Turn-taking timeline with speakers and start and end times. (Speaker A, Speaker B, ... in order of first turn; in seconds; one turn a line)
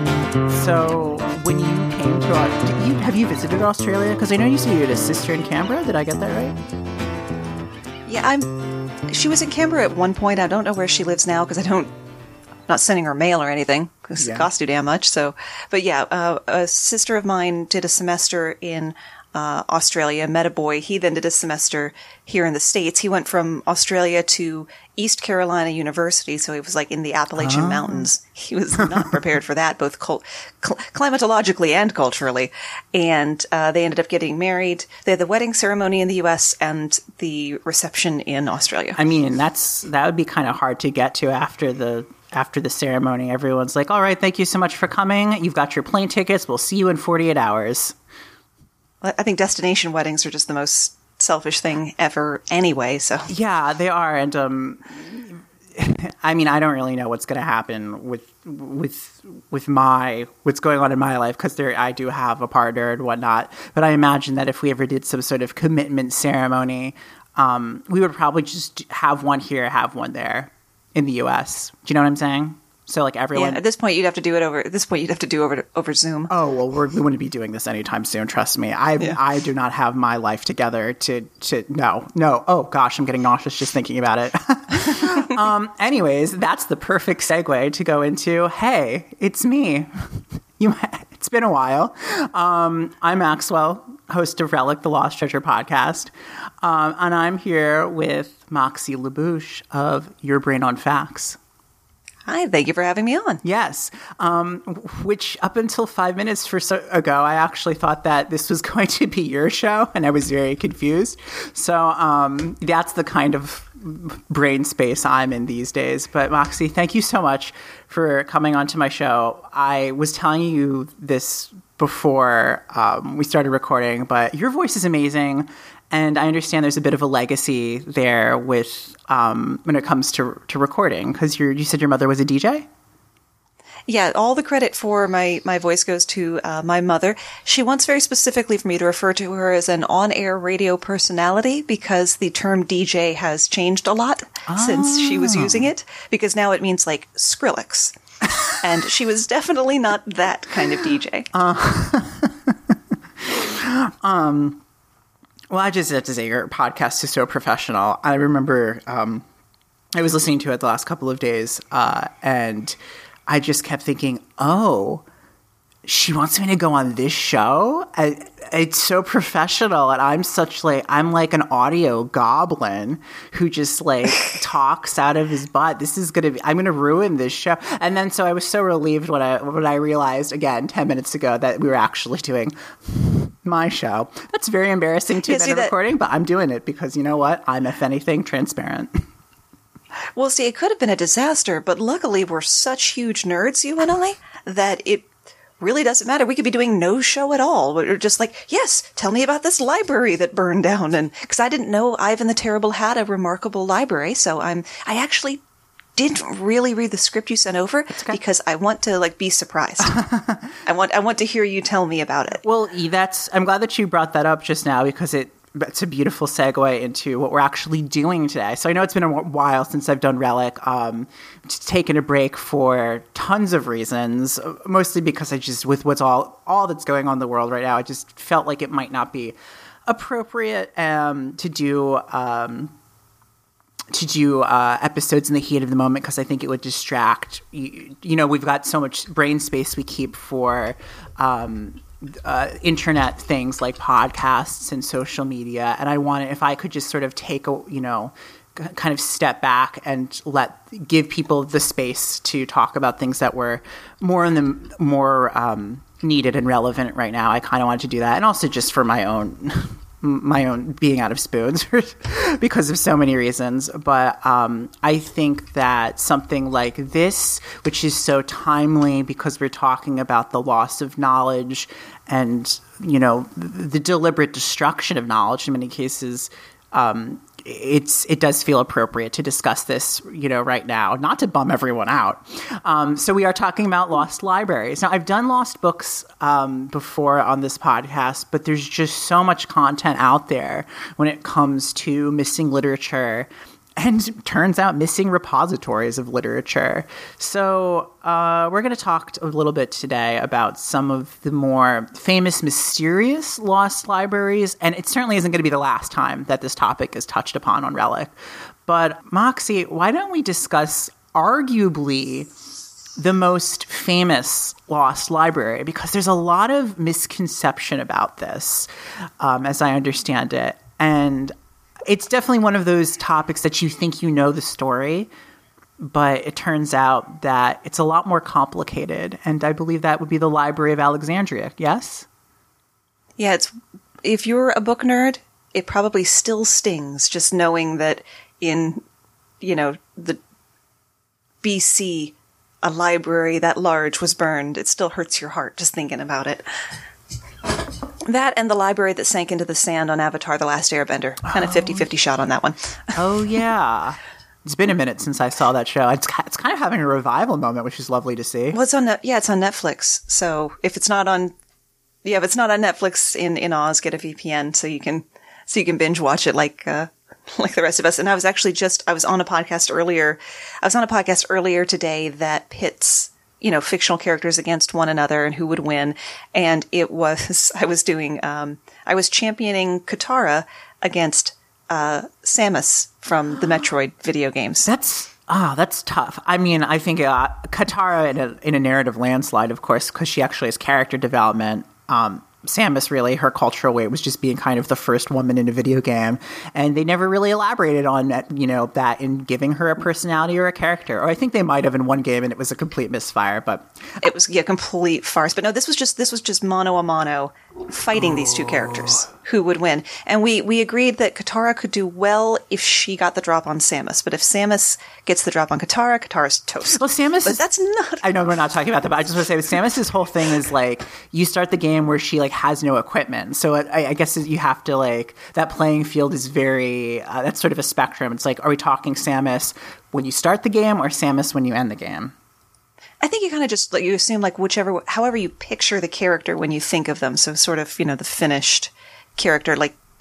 Speaker A: 0.5-6.6
Speaker B: 8.1-11.9
Speaker B: 12.7-39.0
Speaker A: 14.2-14.5
Speaker A: 27.4-28.1
Speaker A: 28.9-29.1
Speaker A: 39.0-48.0
Speaker B: 49.0-53.3
Speaker A: 53.3-73.6
Speaker B: 73.3-76.3
Speaker A: 76.3-96.1
Speaker A: 96.6-101.4
Speaker B: 102.3-103.4
Speaker A: 103.4-132.7
Speaker B: 133.9-147.9
Speaker A: 144.5-145.7
Speaker B: 148.5-151.3
Speaker A: 151.3-154.6
Speaker A: 155.5-159.2
Speaker A: 159.9-165.0
Speaker A: 165.8-189.0
Speaker B: 185.2-185.7
Speaker B: 190.2-195.1
Speaker B: 195.6-205.4
Speaker B: 205.9-210.0
Speaker A: 207.9-208.2
Speaker A: 209.9-210.6
Speaker B: 210.6-212.4
Speaker A: 212.4-232.8
Speaker A: 233.9-308.1
Speaker A: 308.7-312.3
Speaker A: 313.0-318.7
Speaker A: 319.2-321.3
Speaker A: 321.9-325.1
Speaker A: 325.8-332.1
Speaker B: 333.2-333.5
Speaker B: 334.0-338.8
Speaker B: 339.4-340.2
Speaker B: 341.4-346.4
Speaker B: 348.1-353.0
Speaker A: 351.3-351.8
Speaker A: 353.0-358.6
Speaker B: 358.5-361.4
Speaker B: 362.1-384.7
Speaker A: 384.6-404.0
Speaker B: 404.0-418.1
Speaker A: 408.0-409.0
Speaker A: 416.7-417.4
Speaker A: 418.0-432.1
Speaker B: 433.0-439.8